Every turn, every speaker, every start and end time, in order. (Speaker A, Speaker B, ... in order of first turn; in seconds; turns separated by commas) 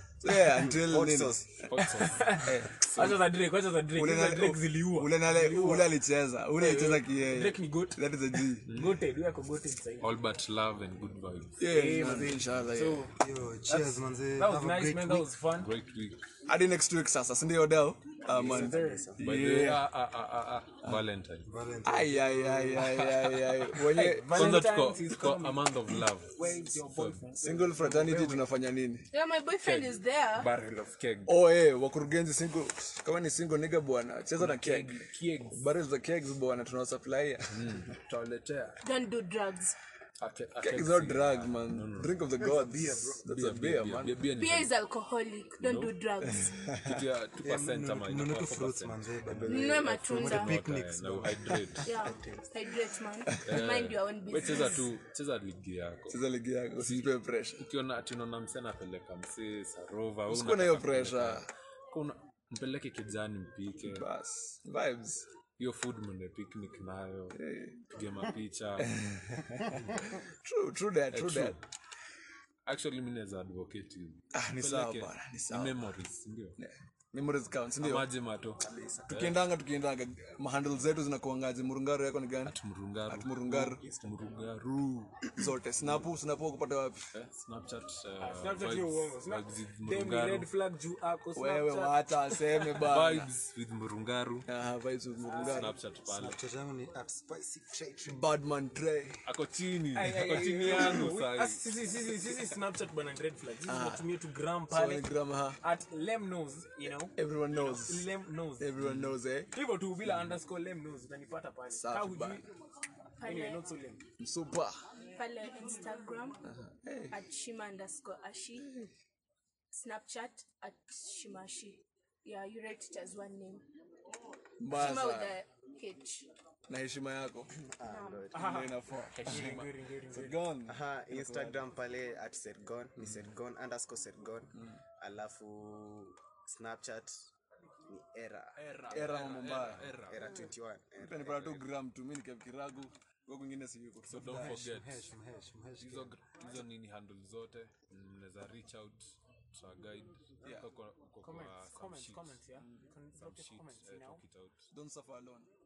Speaker A: 0.2-1.4, Speaker B: 0.5-1.6, Speaker C: 1.6-3.2, Speaker D: 2.0-5.9, Speaker A: 2.4-2.9, Speaker A: 4.0-8.7, Speaker D: 6.6-8.0, Speaker D: 8.7-10.1, Speaker C: 8.7-9.0, Speaker C: 10.0-11.6, Speaker A: 11.6-13.1, Speaker D: 11.6-13.1, Speaker E: 13.2-15.3, Speaker D: 13.7-15.7, Speaker C: 15.5-16.2, Speaker A: 16.5-19.9, Speaker D: 18.3-19.1, Speaker B: 18.3-19.2, Speaker C: 19.2-21.5, Speaker E: 21.5-22.9, Speaker A: 21.8-24.7, Speaker D: 23.8-28.5, Speaker C: 24.3-27.2, Speaker A: 27.4-29.1, Speaker F: 29.1-30.5, Speaker C: 29.6-31.3, Speaker A: 31.3-38.0, Speaker D: 34.4-35.6, Speaker C: 37.5-38.8, Speaker F: 38.8-39.8, Speaker C: 40.2-42.5, Speaker A: 40.6-44.2, Speaker E: 42.5-43.2, Speaker C: 43.2-44.7, Speaker F: 44.4-46.6, Speaker C: 45.6-46.0, Speaker A: 46.3-47.0, Speaker C: 46.8-52.1, Speaker E: 47.4-51.5, Speaker F: 49.4-50.6, Speaker F: 51.8-54.9, Speaker C: 53.4-56.2, Speaker A: 56.1-57.6, Speaker C: 56.8-64.0, Speaker A: 60.3-61.5, Speaker A: 63.9-65.3, Speaker C: 65.6-67.4, Speaker A: 67.3-67.8, Speaker C: 67.9-69.0, Speaker A: 68.8-71.6, Speaker C: 71.1-71.6, Speaker C: 72.7-76.6, Speaker A: 74.3-75.8, Speaker A: 76.6-78.1, Speaker C: 77.8-79.5, Speaker B: 78.6-79.1, Speaker A: 79.1-82.6, Speaker C: 82.5-85.3, Speaker A: 83.1-83.8, Speaker B: 83.8-84.3, Speaker A: 85.2-87.1, Speaker C: 87.1-90.5, Speaker D: 88.2-92.0, Speaker A: 91.4-93.3, Speaker C: 92.8-94.5, Speaker A: 94.5-95.7, Speaker D: 95.3-95.7, Speaker C: 95.4-96.4, Speaker E: 96.1-98.2, Speaker A: 98.0-99.2, Speaker C: 99.3-101.7, Speaker D: 99.9-108.7, Speaker A: 100.2-101.0, Speaker A: 103.7-104.1, Speaker A: 104.7-105.6, Speaker A: 107.2-108.1, Speaker A: 108.6-109.5, Speaker C: 108.8-109.2, Speaker D: 109.5-112.5, Speaker A: 111.7-112.4, Speaker F: 113.2-113.6, Speaker D: 113.2-114.0, Speaker A: 114.2-114.8, Speaker F: 115.1-116.4, Speaker A: 116.5-117.2, Speaker F: 117.1-118.8, Speaker F: 119.7-123.7, Speaker A: 124.6-125.4, Speaker F: 124.7-126.3, Speaker A: 126.7-127.5, Speaker B: 127.8-128.6, Speaker F: 127.8-128.3, Speaker D: 128.3-130.4, Speaker A: 128.4-131.6, Speaker B: 130.7-137.3, Speaker C: 133.0-133.3, Speaker B: 137.9-138.8, Speaker C: 138.8-140.4, Speaker A: 138.9-140.0, Speaker B: 140.1-141.7, Speaker A: 141.0-144.6, Speaker C: 144.1-145.1, Speaker E: 144.3-146.2, Speaker C: 145.8-152.4, Speaker A: 150.4-150.7, Speaker D: 151.2-154.2, Speaker A: 152.6-152.9, Speaker C: 153.2-154.7, Speaker A: 154.7-155.5